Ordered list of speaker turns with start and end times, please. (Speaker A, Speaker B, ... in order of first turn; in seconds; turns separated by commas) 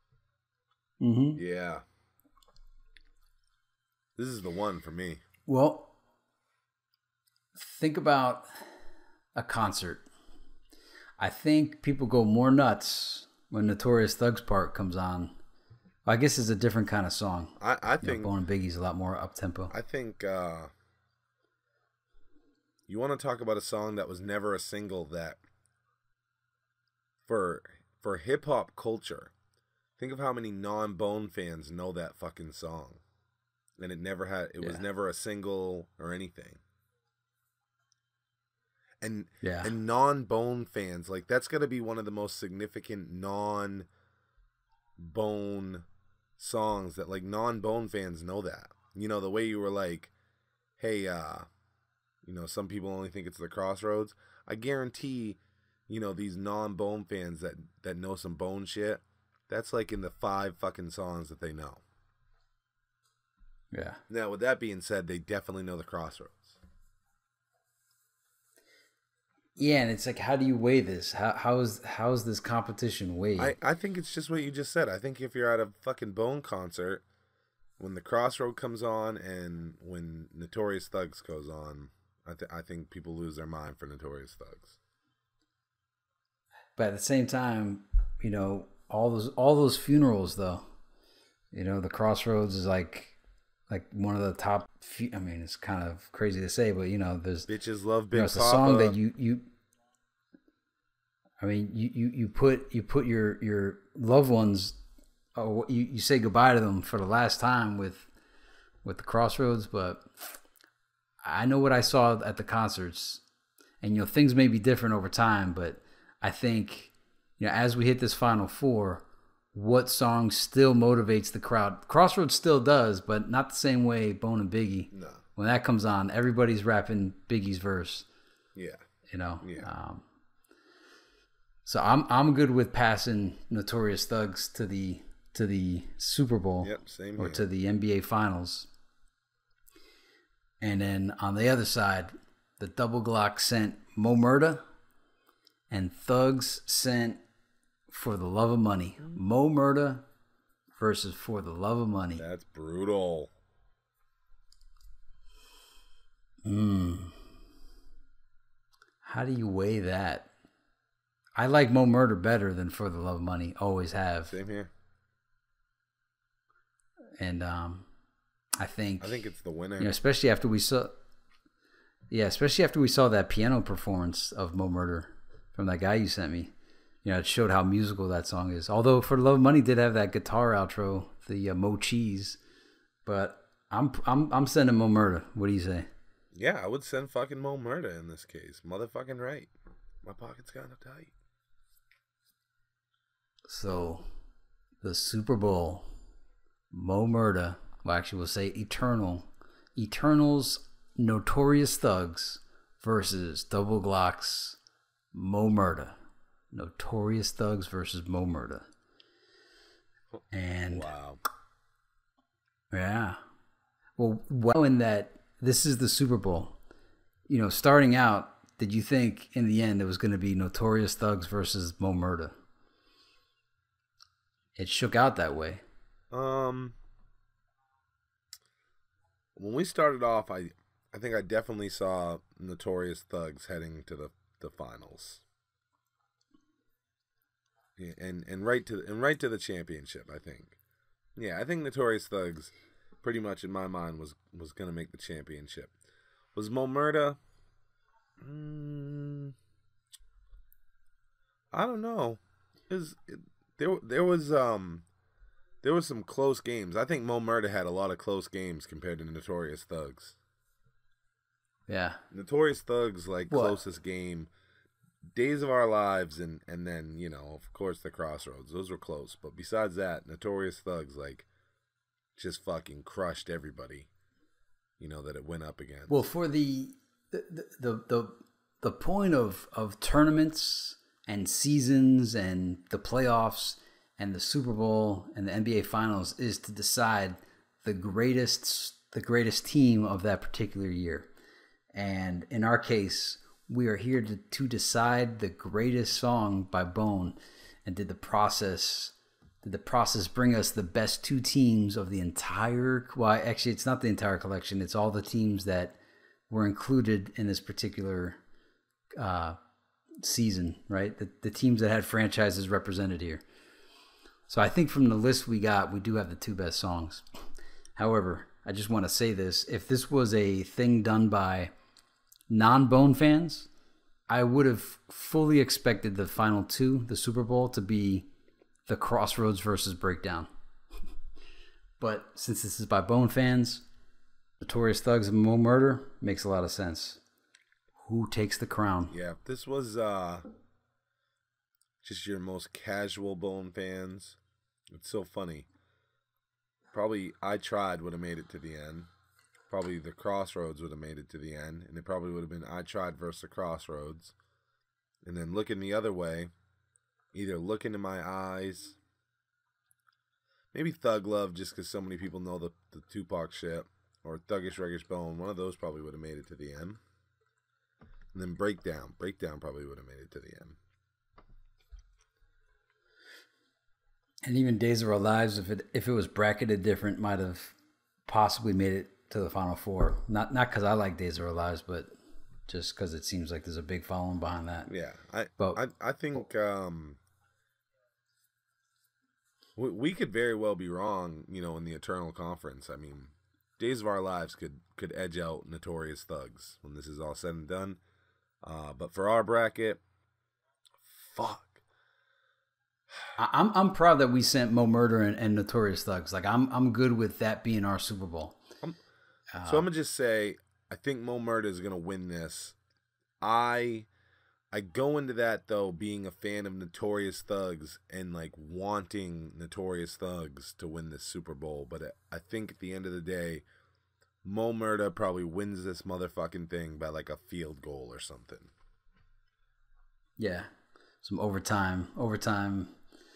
Speaker A: 1.0-1.4, Speaker B: 1.4-1.8, Speaker B: 4.2-5.2, Speaker A: 5.5-5.9, Speaker A: 7.5-8.5, Speaker A: 9.3-10.0, Speaker A: 11.2-15.4, Speaker A: 16.1-19.7, Speaker B: 17.6-18.3, Speaker B: 19.7-20.7, Speaker B: 22.9-25.4, Speaker B: 27.2-29.3, Speaker B: 30.0-33.0, Speaker B: 33.8-36.6, Speaker B: 39.0-43.9, Speaker A: 39.4-39.7, Speaker B: 45.0-45.9, Speaker B: 46.4-50.1, Speaker B: 50.8-51.5, Speaker B: 52.2-61.8, Speaker A: 63.7-64.0, Speaker B: 64.1-66.6, Speaker A: 69.6-73.5, Speaker B: 73.4-77.0, Speaker B: 77.8-84.8, Speaker A: 86.8-90.6, Speaker A: 91.5-93.2, Speaker A: 93.7-97.5, Speaker B: 97.5-99.0, Speaker A: 98.1-99.5, Speaker A: 101.4-104.8, Speaker A: 105.3-108.1, Speaker A: 108.8-110.1, Speaker A: 111.2-113.2, Speaker A: 113.8-128.1, Speaker B: 124.9-125.2, Speaker B: 128.5-128.8, Speaker A: 129.1-130.0, Speaker B: 129.4-129.7, Speaker A: 131.6-138.7, Speaker B: 136.6-137.4, Speaker A: 140.6-144.6, Speaker A: 145.7-147.2, Speaker A: 147.9-150.0, Speaker A: 150.8-152.2, Speaker B: 152.2-153.3, Speaker A: 156.4-157.2, Speaker A: 159.0-160.3, Speaker A: 161.3-164.3, Speaker B: 164.3-164.7, Speaker A: 167.2-167.9, Speaker A: 168.6-169.2, Speaker B: 169.0-169.9, Speaker A: 169.8-170.9, Speaker A: 172.1-176.5, Speaker A: 177.0-182.4, Speaker A: 183.0-185.9, Speaker B: 186.3-189.5, Speaker B: 190.0-191.1, Speaker A: 193.5-194.1, Speaker A: 194.8-195.9, Speaker A: 196.7-204.6, Speaker A: 205.1-205.9, Speaker A: 206.5-208.7, Speaker A: 210.3-210.9, Speaker B: 210.7-211.2, Speaker A: 212.7-213.2, Speaker A: 214.0-216.6, Speaker A: 217.3-222.3, Speaker A: 224.6-225.6, Speaker B: 226.1-226.8, Speaker B: 229.3-235.2, Speaker B: 237.8-240.6, Speaker B: 241.2-245.7, Speaker B: 246.3-247.2, Speaker B: 248.2-249.3, Speaker B: 251.5-254.8, Speaker B: 255.6-260.1, Speaker A: 261.7-262.0, Speaker B: 262.1-264.3, Speaker A: 263.3-263.6, Speaker B: 265.1-271.2, Speaker B: 272.1-273.9, Speaker B: 274.8-276.1, Speaker A: 275.9-291.1, Speaker A: 291.7-305.8, Speaker A: 306.3-308.2, Speaker A: 309.0-309.4, Speaker A: 310.0-313.2, Speaker A: 314.3-317.0, Speaker A: 317.8-321.5, Speaker A: 322.3-323.5, Speaker A: 324.1-328.1, Speaker A: 328.7-330.3, Speaker A: 331.8-333.6, Speaker A: 334.4-337.0, Speaker A: 337.8-338.9, Speaker B: 338.9-340.2, Speaker B: 341.8-344.2, Speaker B: 344.7-345.5, Speaker B: 346.7-348.9, Speaker B: 349.5-354.1, Speaker B: 355.0-356.3, Speaker B: 357.1-358.8, Speaker B: 360.5-366.8, Speaker B: 368.1-370.6, Speaker A: 374.2-377.5, Speaker A: 378.1-381.9, Speaker A: 382.5-384.7, Speaker B: 384.7-387.0, Speaker B: 389.6-397.8, Speaker B: 398.4-399.8, Speaker B: 400.9-401.6, Speaker A: 403.2-408.4, Speaker A: 409.3-409.7, Speaker B: 409.4-412.6, Speaker B: 413.2-413.9, Speaker B: 414.5-423.4, Speaker B: 424.2-428.5, Speaker A: 430.2-430.5, Speaker A: 431.0-432.7